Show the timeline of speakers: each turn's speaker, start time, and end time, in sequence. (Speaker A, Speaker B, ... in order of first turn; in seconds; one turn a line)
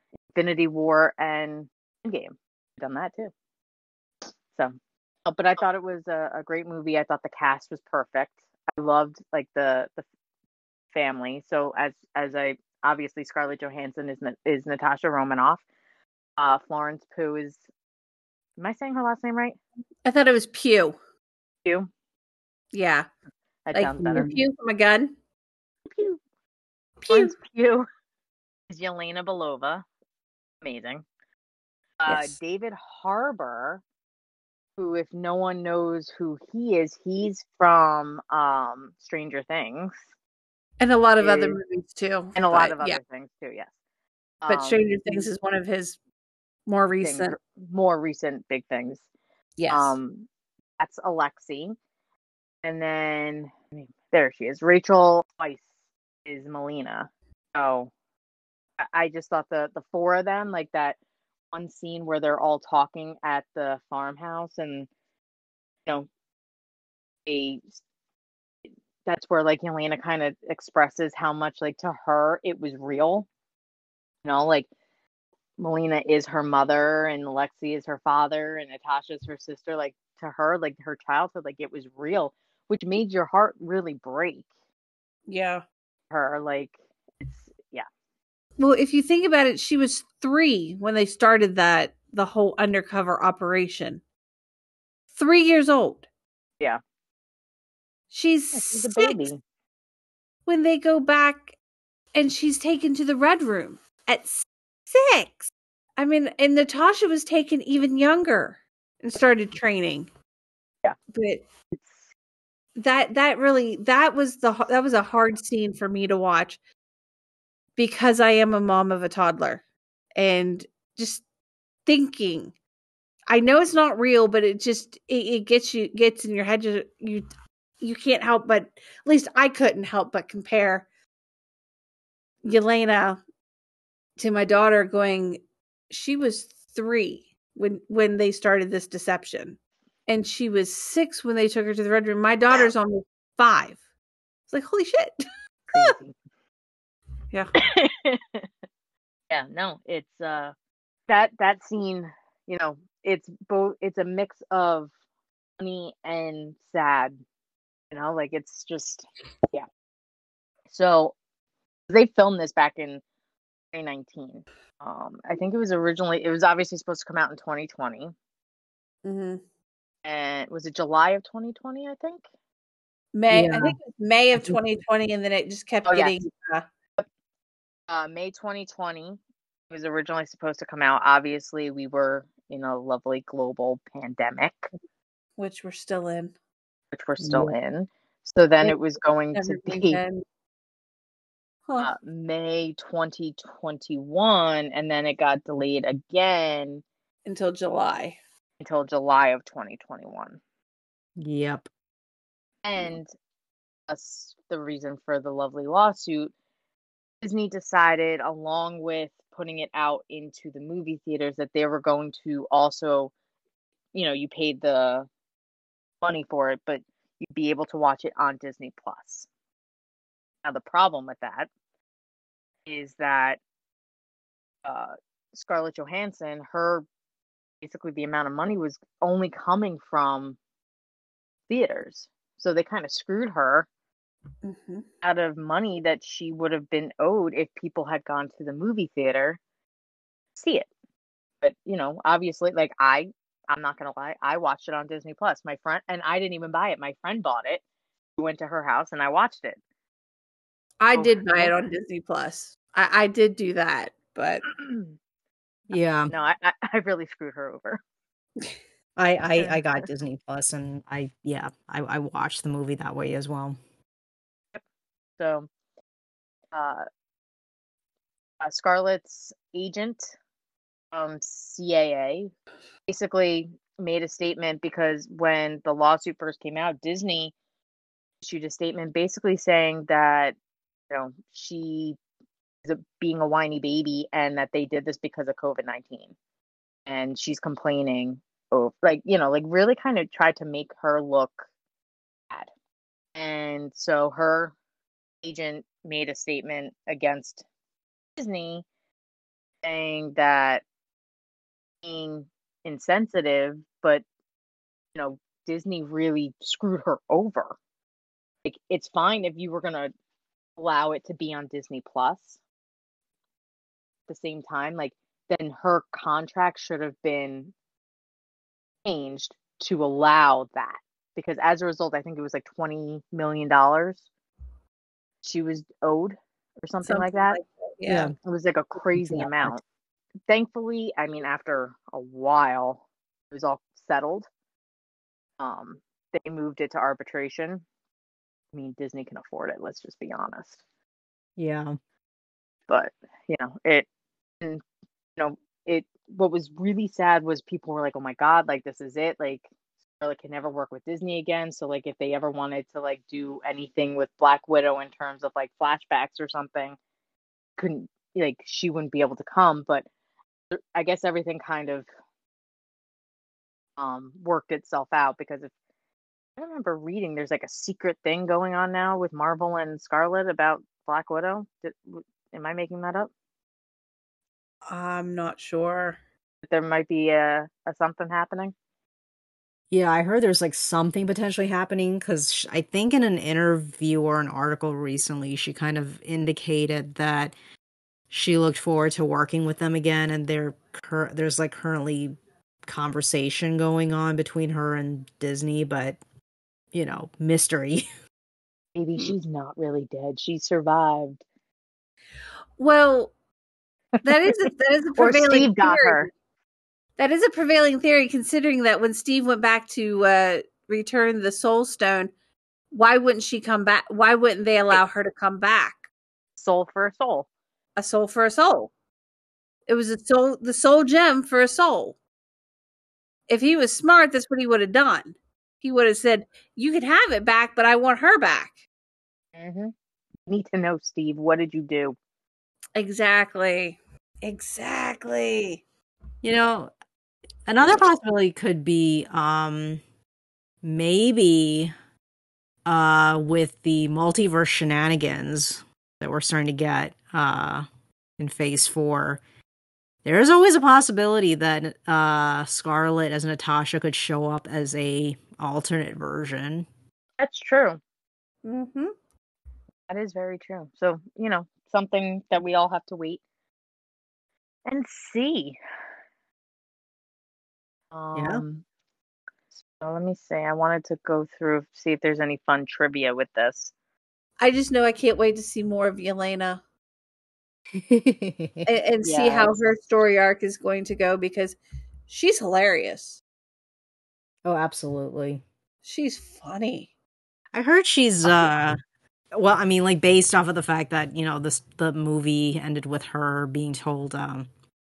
Speaker A: 0.3-3.3
Speaker A: 4.5-10.0
Speaker A: 10.9-15.6
Speaker A: 16.4-17.6
Speaker A: 18.6-19.6
Speaker B: 20.0-21.0
Speaker B: 22.7-23.1
Speaker A: 23.6-24.4
Speaker B: 23.7-25.1
Speaker A: 25.9-26.2
Speaker B: 27.0-27.3
Speaker A: 27.1-27.9
Speaker A: 28.7-29.8
Speaker A: 30.6-31.0
Speaker A: 32.0-33.8
Speaker B: 32.1-32.3
Speaker A: 34.8-40.0
Speaker B: 40.8-43.0
Speaker A: 41.2-41.6
Speaker A: 42.4-43.7
Speaker A: 44.4-45.2
Speaker B: 44.5-46.0
Speaker B: 46.7-47.4
Speaker A: 47.0-49.0
Speaker B: 49.6-50.0
Speaker A: 49.7-50.3
Speaker A: 50.8-51.7
Speaker A: 52.6-55.6
Speaker A: 56.2-57.9
Speaker A: 58.8-61.0
Speaker A: 61.5-64.9
Speaker A: 67.2-67.8
Speaker A: 69.0-73.3
Speaker A: 74.2-74.7
Speaker A: 75.6-84.5
Speaker B: 85.3-85.6
Speaker A: 86.1-87.9
Speaker B: 88.6-94.0
Speaker B: 95.2-96.0
Speaker B: 98.1-99.3
Speaker A: 98.5-99.4
Speaker B: 100.5-101.5
Speaker B: 102.1-110.1
Speaker B: 111.1-111.4
Speaker B: 112.8-116.6
Speaker B: 117.8-119.6
Speaker B: 120.2-121.2
Speaker B: 121.9-122.5
Speaker B: 123.3-127.3
Speaker B: 127.8-130.8
Speaker B: 132.4-133.2
Speaker B: 134.2-143.8
Speaker B: 144.5-145.9
Speaker A: 145.7-146.1
Speaker A: 147.6-148.5
Speaker A: 149.3-150.5
Speaker A: 151.1-154.9
Speaker A: 155.6-157.2
Speaker A: 157.9-159.7
Speaker A: 160.7-161.2
Speaker A: 161.9-163.0
Speaker A: 163.7-168.1
Speaker B: 169.0-169.4
Speaker A: 170.0-172.2
Speaker B: 173.1-176.7
Speaker C: 173.3-173.8
Speaker A: 175.9-176.2
Speaker A: 177.9-179.2
Speaker A: 179.7-184.7
Speaker B: 185.4-186.3
Speaker A: 186.9-190.0
Speaker C: 187.2-187.6
Speaker B: 189.3-190.2
Speaker B: 191.7-191.9
Speaker A: 191.8-196.8
Speaker B: 197.2-198.2
Speaker A: 198.6-200.4
Speaker C: 201.2-201.7
Speaker A: 202.6-203.1
Speaker A: 203.9-206.3
Speaker A: 207.2-213.1
Speaker A: 213.9-215.1
Speaker A: 216.0-219.3
Speaker A: 220.4-221.5
Speaker A: 222.7-223.4
Speaker A: 224.6-226.9
Speaker A: 227.6-230.4
Speaker A: 231.5-233.7
Speaker B: 234.4-234.9
Speaker A: 235.0-239.4
Speaker A: 240.3-240.7
Speaker A: 241.4-247.6
Speaker A: 248.2-249.6
Speaker B: 250.8-254.4
Speaker A: 250.9-251.5
Speaker A: 254.5-255.0
Speaker C: 255.7-256.1
Speaker A: 256.1-257.8
Speaker C: 259.0-263.6
Speaker A: 259.4-259.8
Speaker A: 265.2-265.5
Speaker A: 266.5-266.8
Speaker A: 268.4-270.1
Speaker A: 270.9-272.3
Speaker A: 272.9-277.3
Speaker A: 278.2-280.4
Speaker A: 280.9-282.0
Speaker A: 282.6-286.1
Speaker A: 286.9-291.4
Speaker A: 293.1-294.5
Speaker A: 295.2-297.4
Speaker A: 298.2-298.6
Speaker A: 299.6-300.6
Speaker A: 301.8-304.0
Speaker A: 304.9-307.6
Speaker A: 308.4-309.9
Speaker A: 310.6-312.4
Speaker A: 314.1-317.5
Speaker A: 318.8-324.1
Speaker A: 325.2-327.4
Speaker B: 326.9-328.1
Speaker C: 327.9-328.1
Speaker A: 328.2-329.6
Speaker C: 328.9-329.5
Speaker A: 330.3-334.3
Speaker A: 335.4-337.6
Speaker A: 338.5-340.6
Speaker C: 341.4-341.7
Speaker A: 342.7-343.9
Speaker A: 345.2-349.4
Speaker A: 350.0-356.8
Speaker A: 357.6-359.9
Speaker A: 360.5-361.9
Speaker A: 363.8-365.5
Speaker A: 366.4-373.1
Speaker B: 374.7-376.0
Speaker A: 376.4-378.5
Speaker C: 379.7-387.3
Speaker C: 388.1-396.0
Speaker C: 396.7-397.9
Speaker A: 398.7-401.2
Speaker B: 402.6-403.1
Speaker A: 404.0-406.1
Speaker B: 404.0-406.1
Speaker B: 407.0-412.1
Speaker B: 412.7-415.9
Speaker A: 416.4-417.3
Speaker B: 417.8-418.7
Speaker B: 419.7-421.9
Speaker B: 423.3-428.6
Speaker A: 429.3-429.7
Speaker A: 430.3-431.9
Speaker B: 432.8-435.6
Speaker C: 436.2-436.7
Speaker C: 437.5-439.8
Speaker C: 440.6-441.7
Speaker C: 442.6-447.6
Speaker C: 448.2-449.2
Speaker C: 450.0-456.7
Speaker A: 457.2-457.8
Speaker B: 458.4-458.9
Speaker A: 459.9-463.2
Speaker A: 464.6-465.6
Speaker A: 467.9-468.6
Speaker C: 468.1-468.4
Speaker A: 469.6-473.7
Speaker B: 474.4-476.6
Speaker C: 477.7-478.7
Speaker B: 478.6-481.6
Speaker A: 479.0-479.6
Speaker B: 482.1-483.2
Speaker C: 484.4-485.4
Speaker B: 485.8-486.9
Speaker C: 487.5-488.8
Speaker C: 489.3-494.5